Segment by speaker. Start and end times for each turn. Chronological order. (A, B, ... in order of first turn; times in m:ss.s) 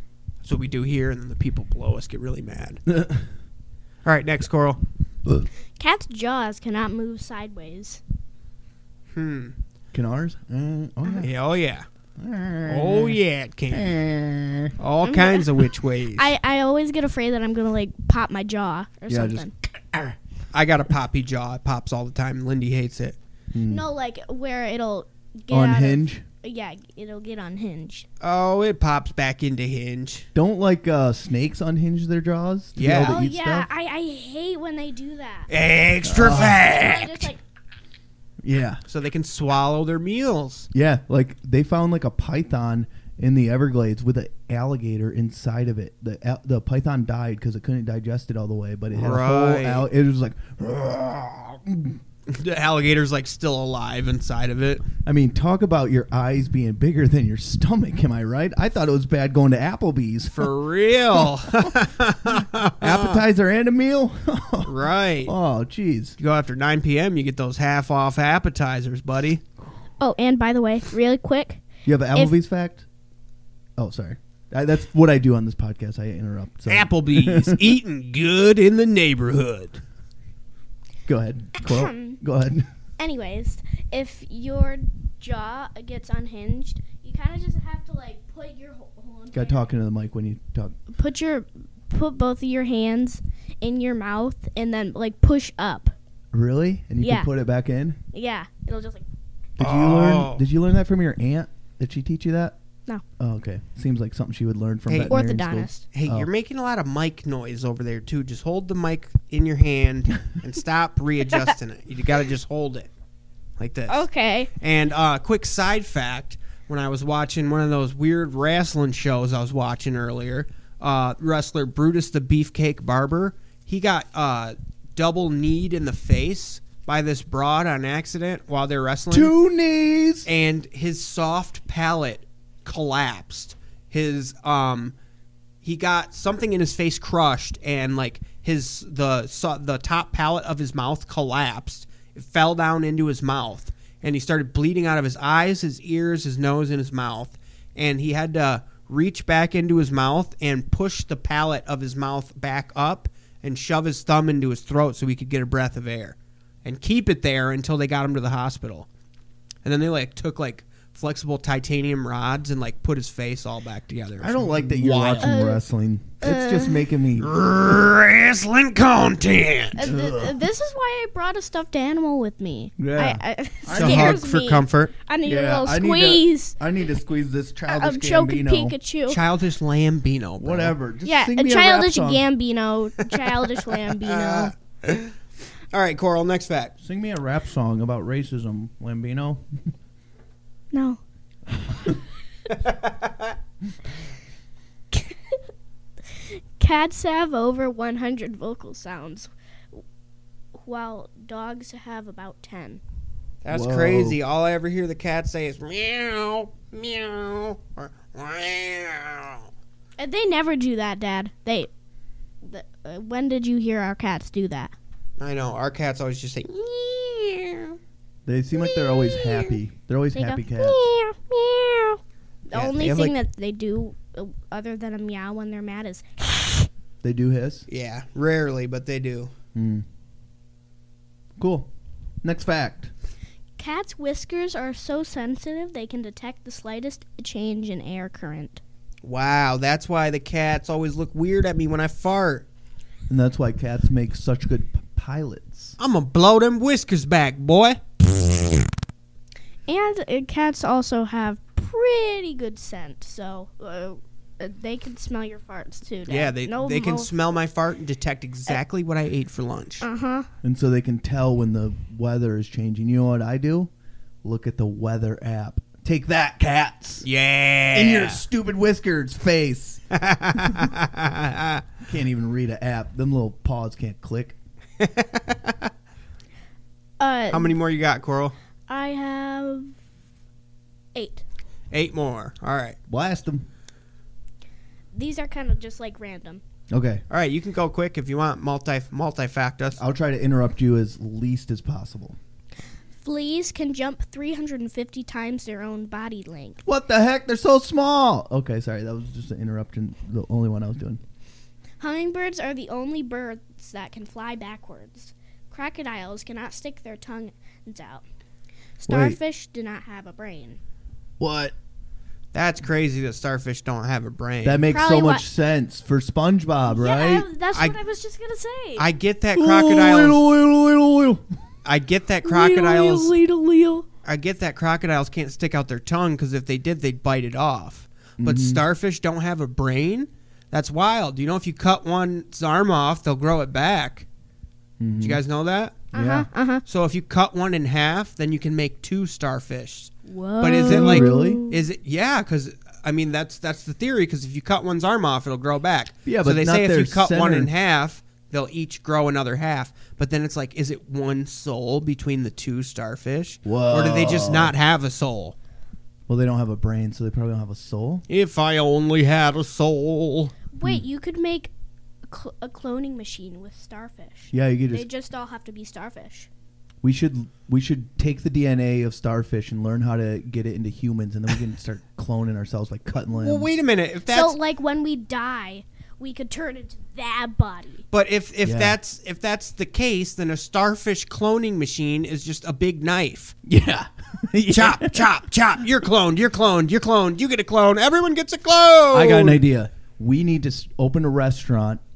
0:00.4-0:02.8 A
0:02.9-0:03.3 B
0:04.0-0:04.8 A
0:05.8-0:08.0 C
0:09.1-0:09.5 A
0:09.9-0:11.3 B
0:11.1-0:11.8 A
0:12.2-0:13.2 B
0:12.6-0:14.0 A
0:13.7-0:14.7 B
0:14.8-0:16.3 A
0:15.0-0:15.6 C
0:16.1-0:19.5 C
0:19.1-0:20.1 B
0:20.5-0:23.2 A
0:23.5-0:23.8 B
0:23.7-0:28.1 C
0:25.5-0:26.2 B
0:28.2-0:30.3 A
0:30.3-0:33.7 B
0:32.8-0:33.2 A
0:33.0-0:35.5 C
0:35.5-0:37.3 A
0:36.0-0:36.6 B
0:36.5-0:37.4 C
0:38.4-0:38.8 B
0:38.9-0:40.7 A
0:40.7-0:52.0 B
0:48.9-0:49.9 A
0:52.3-0:54.8 A
0:55.0-1:00.5 B
1:00.3-1:03.2 A
1:01.2-1:01.7 B
1:02.8-1:06.2 B
1:04.6-1:05.3 A
1:06.2-1:09.4 A
1:10.0-1:11.6 C
1:11.8-1:12.8 B
1:13.8-1:17.8 B
1:16.7-1:19.8 A
1:21.1-1:22.7 B
1:21.6-1:22.2 C
1:23.0-1:29.6 C
1:29.3-1:30.8 B
1:30.9-1:35.9 C
1:36.3-1:38.0 B
1:37.0-1:37.3 C
1:38.1-1:39.0 C
1:39.6-1:42.6 B
1:39.6-1:40.4 A
1:43.2-1:46.3 B
1:44.9-1:45.1 A
1:45.0-1:45.8 C
1:45.9-1:52.9 A
1:53.6-1:54.1 A
1:53.9-1:54.5 C
1:54.6-2:09.4 A
2:09.1-2:10.3 B
2:10.2-2:14.9 A
2:15.6-2:38.9 A
2:39.6-2:45.3 A
2:44.2-2:47.3 B
2:45.2-2:45.6 C
2:46.2-2:46.8 C
2:47.2-2:49.8 A
2:49.7-2:56.6 C
2:49.8-2:50.4 B
2:52.8-2:54.2 B
2:53.7-2:54.9 A
2:55.2-2:58.7 B
2:57.7-2:59.2 C
2:59.1-3:00.8 A
3:00.4-3:02.2 B
3:01.0-3:04.5 C
3:03.3-3:05.1 A
3:05.7-3:06.7 A
3:06.8-3:09.7 B
3:10.7-3:11.0 C
3:12.5-3:13.3 A
3:14.9-3:15.4 C
3:16.2-3:19.8 C
3:20.6-3:22.8 C
3:23.4-3:29.4 A
3:23.5-3:24.2 B
3:30.0-3:31.7 C
3:32.4-3:34.7 C
3:35.2-3:37.8 A
3:38.2-3:40.9 B
3:39.0-3:39.5 C
3:40.1-3:46.7 C
3:42.5-3:43.2 A
3:47.0-3:47.7 B
3:47.7-3:49.3 A
3:49.5-3:49.8 B
3:51.4-3:52.9 B
3:53.6-3:58.6 C
3:59.0-4:02.4 A
4:03.1-4:05.8 B
4:05.8-4:08.1 A
4:09.7-4:17.1 C
4:16.1-4:19.8 A
4:19.8-4:20.3 C
4:20.4-4:23.7 B
4:24.2-4:27.0 B
4:27.0-4:28.2 A
4:27.7-4:29.8 B
4:29.9-4:31.6 A
4:31.8-4:34.4 B
4:34.8-4:35.7 A
4:37.0-4:37.5 C
4:37.3-4:38.3 A
4:38.7-4:39.7 C
4:40.9-4:41.2 C
4:41.7-4:42.8 A
4:42.9-4:43.5 B
4:44.9-4:46.4 C
4:46.7-4:47.0 B
4:47.1-4:49.8 A
4:49.8-4:52.2 B
4:53.0-4:56.6 C
4:56.6-5:01.0 B
5:01.8-5:08.0 C
5:08.8-5:10.6 C
5:08.9-5:09.2 B
5:11.2-5:11.5 B
5:12.3-5:14.6 A
5:14.4-5:17.3 B
5:14.7-5:15.2 C
5:16.7-5:18.9 C
5:18.8-5:20.2 A
5:19.3-5:21.2 B
5:21.6-5:23.1 A
5:22.2-5:23.8 C
5:24.0-5:34.0 A
5:28.2-5:28.6 B
5:34.8-5:35.2 B
5:35.0-5:35.9 A
5:35.9-5:36.6 C
5:35.9-5:36.3 B
5:36.6-5:55.3 A
5:40.0-5:41.6 C
5:40.6-5:41.4 B
5:46.0-5:47.5 B
5:53.4-5:54.5 B
5:56.1-5:58.0 B
5:58.1-6:00.3 A
6:00.5-6:01.5 C
6:02.1-6:06.3 C
6:04.3-6:04.8 B
6:06.8-6:13.5 B
6:13.1-6:14.4 A
6:14.1-6:17.8 C
6:17.9-6:23.3 A
6:18.4-6:18.8 B
6:23.4-6:25.0 B
6:24.5-6:29.4 A
6:28.9-6:31.8 B